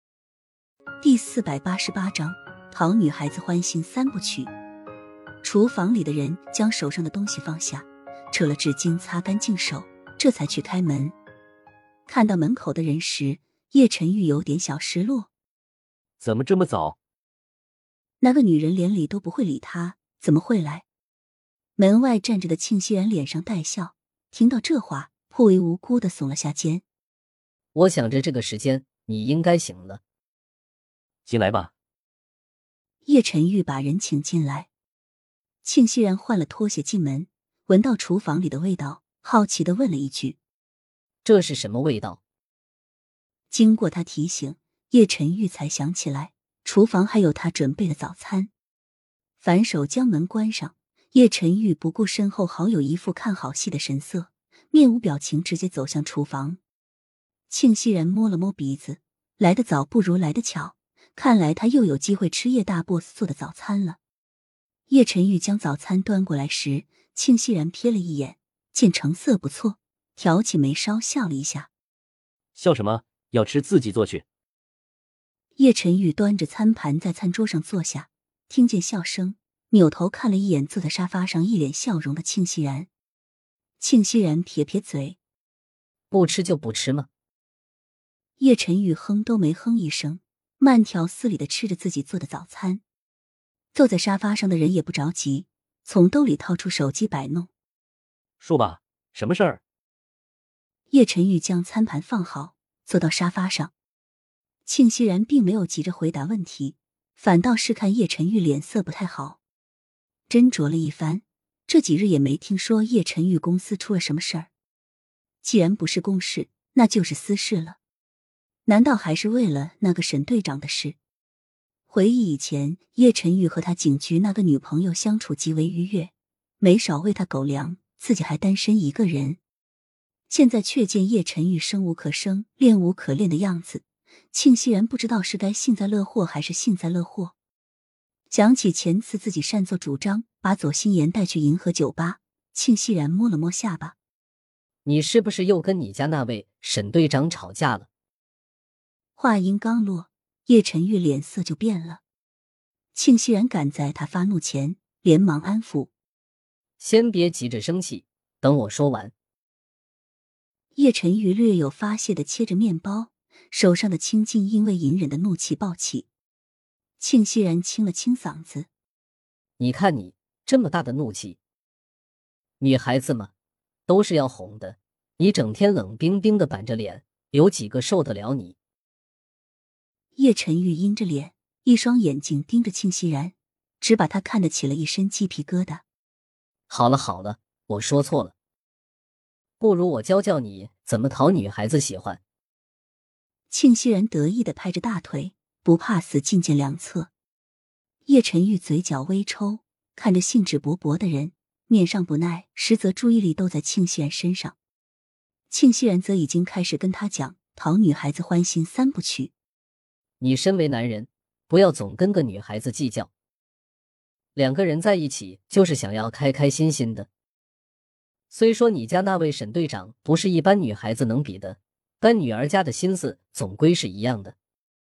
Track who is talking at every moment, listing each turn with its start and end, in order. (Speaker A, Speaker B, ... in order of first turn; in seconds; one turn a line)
Speaker A: 1.0-4.5
Speaker A: 5.4-11.1
Speaker A: 12.1-15.3
Speaker B: 16.2-17.0
Speaker A: 18.2-20.9
Speaker A: 21.8-26.8
Speaker C: 27.7-30.0
Speaker B: 31.2-31.7
Speaker A: 33.0-34.7
Speaker A: 35.6-40.4
Speaker C: 41.2-42.2
Speaker A: 43.5-48.5
Speaker A: 49.4-56.6
Speaker A: 57.5-64.0
Speaker A: 64.9-71.7
Speaker B: 72.5-74.2
Speaker A: 75.6-82.9
Speaker A: 83.8-85.2
Speaker C: 86.1-87.1
Speaker A: 88.4-92.8
Speaker A: 93.7-97.5
Speaker B: 98.4-99.6
Speaker A: 100.9-103.7
Speaker A: 104.7-109.4
Speaker A: 110.3-114.5
Speaker A: 115.4-117.8
Speaker A: 118.7-121.0
Speaker A: 121.9-129.4
Speaker A: 130.3-137.3
Speaker A: 138.3-143.9
Speaker C: 144.8-147.9
Speaker A: 149.2-152.0
Speaker A: 152.9-155.9
Speaker C: 156.8-159.1
Speaker A: 160.7-166.1
Speaker A: 167.0-168.7
Speaker C: 169.6-171.4
Speaker C: 172.6-173.3
Speaker C: 173.9-178.6
Speaker A: 180.2-185.8
Speaker C: 186.7-188.3
Speaker C: 189.6-192.2
Speaker A: 193.5-197.1
Speaker A: 198.1-204.6
Speaker A: 205.5-209.3
Speaker C: 210.2-213.1
Speaker C: 214.3-217.1
Speaker C: 218.3-224.3